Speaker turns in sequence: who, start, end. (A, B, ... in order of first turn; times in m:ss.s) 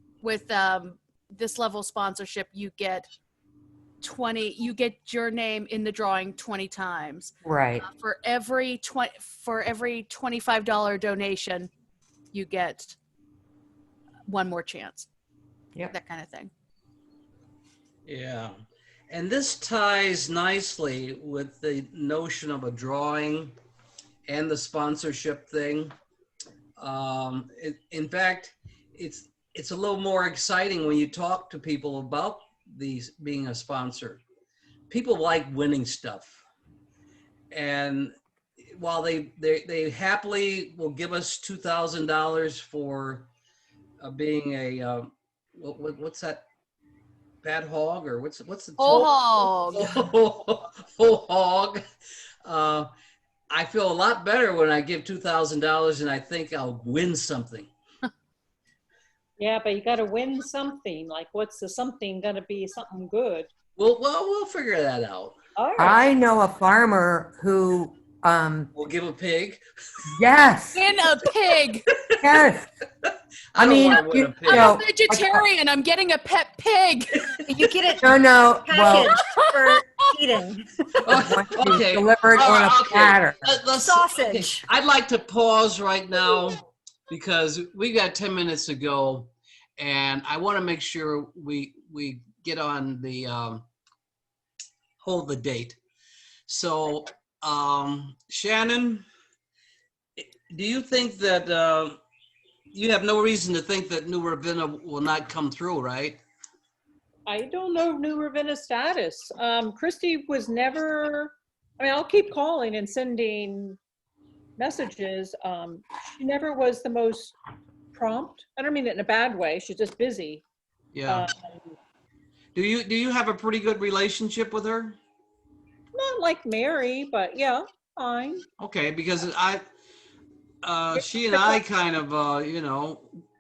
0:00.2-0:03.1 A
0:04.0-0:11.7 A
0:07.4-0:07.9 B
0:12.3-0:13.0 A
0:14.3-0:15.1 A
0:15.9-0:16.5 A
0:18.1-0:18.6 C
0:19.1-0:23.6 C
0:24.3-0:25.9 C
0:26.8-0:34.2 C
0:34.9-0:36.4 C
0:37.5-0:38.1 C
0:38.7-0:43.3 C
0:44.0-0:46.4 C
0:47.4-0:51.8 C
0:48.8-0:49.9 A
0:52.4-0:52.9 C
0:53.5-0:57.7 C
0:59.4-1:03.5 D
1:03.8-1:05.4 C
1:05.6-1:06.0 D
1:05.8-1:08.7 B
1:08.8-1:09.6 C
1:10.1-1:10.8 B
1:10.7-1:11.9 A
1:12.2-1:12.7 B
1:13.5-1:14.8 C
1:13.6-1:15.4 B
1:14.5-1:17.3 A
1:17.5-1:18.1 E
1:18.0-1:19.1 B
1:18.6-1:20.9 E
1:19.0-1:19.8 A
1:21.0-1:33.7 C
1:21.1-1:23.5 B
1:23.8-1:24.6 E
1:35.0-1:35.8 C
1:36.5-1:39.0 C
1:40.2-1:42.0 C
1:42.7-1:46.2 C
1:47.3-1:53.8 D
1:54.6-1:57.4 D
1:57.9-2:00.4 D
2:00.9-2:01.3 C
2:01.1-2:01.3 D
2:02.5-2:05.0 C
2:05.9-2:08.4 D
2:08.6-2:09.6 C
2:10.6-2:13.1 C
2:11.0-2:11.6 D